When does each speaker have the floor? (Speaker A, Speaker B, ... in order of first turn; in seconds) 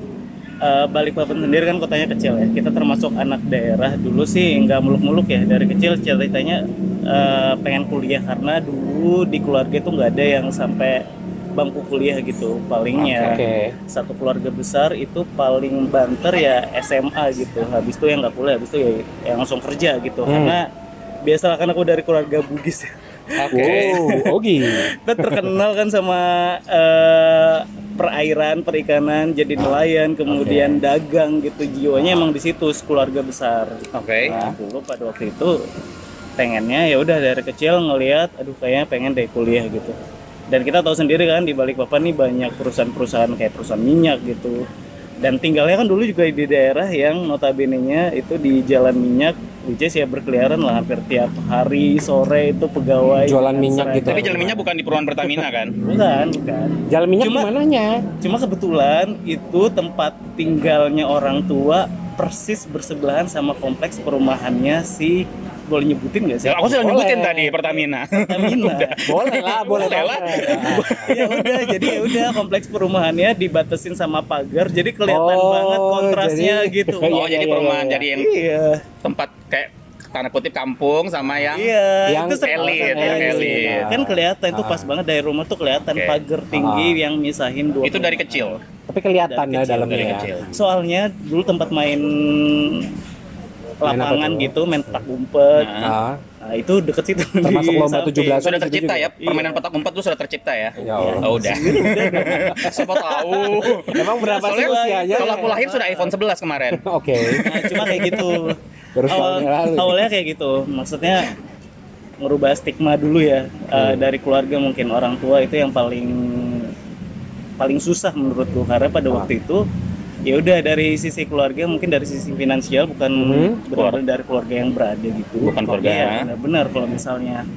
Speaker A: 0.6-11.0, 11.6-20.7, 21.3-35.6, 36.4-40.0, 40.5-44.6, 45.2-54.5, 55.8-57.5, 58.2-66.8, 68.1-69.0, 69.8-77.5, 78.1-78.9, 81.5-88.6, 89.2-92.9, 93.8-95.8, 96.4-98.5, 99.2-99.6, 101.0-106.1, 107.3-111.3, 112.2-116.7, 117.6-119.6, 120.3-127.4
Speaker B: 13.0-13.8, 20.3-20.6, 23.5-25.6, 30.3-30.8, 53.2-54.7, 56.9-58.0, 66.7-67.8, 69.0-71.2, 75.1-78.1, 81.2-81.5, 82.1-85.0, 86.5-87.0, 88.9-90.6, 93.8-95.0, 95.8-96.2, 97.4-99.1, 100.8-102.9, 103.5-105.6, 106.7-108.4, 109.0-110.1, 113.8-114.1, 123.2-123.6
Speaker C: 13.0-13.3, 23.4-24.0, 33.9-34.5, 54.1-55.8, 66.5-72.3, 77.1-78.3, 79.0-81.7, 82.4-83.9, 85.9-86.2, 87.8-88.6, 89.8-90.5, 95.6-96.0, 98.4-106.8, 107.3-108.2, 123.7-124.0, 125.4-126.3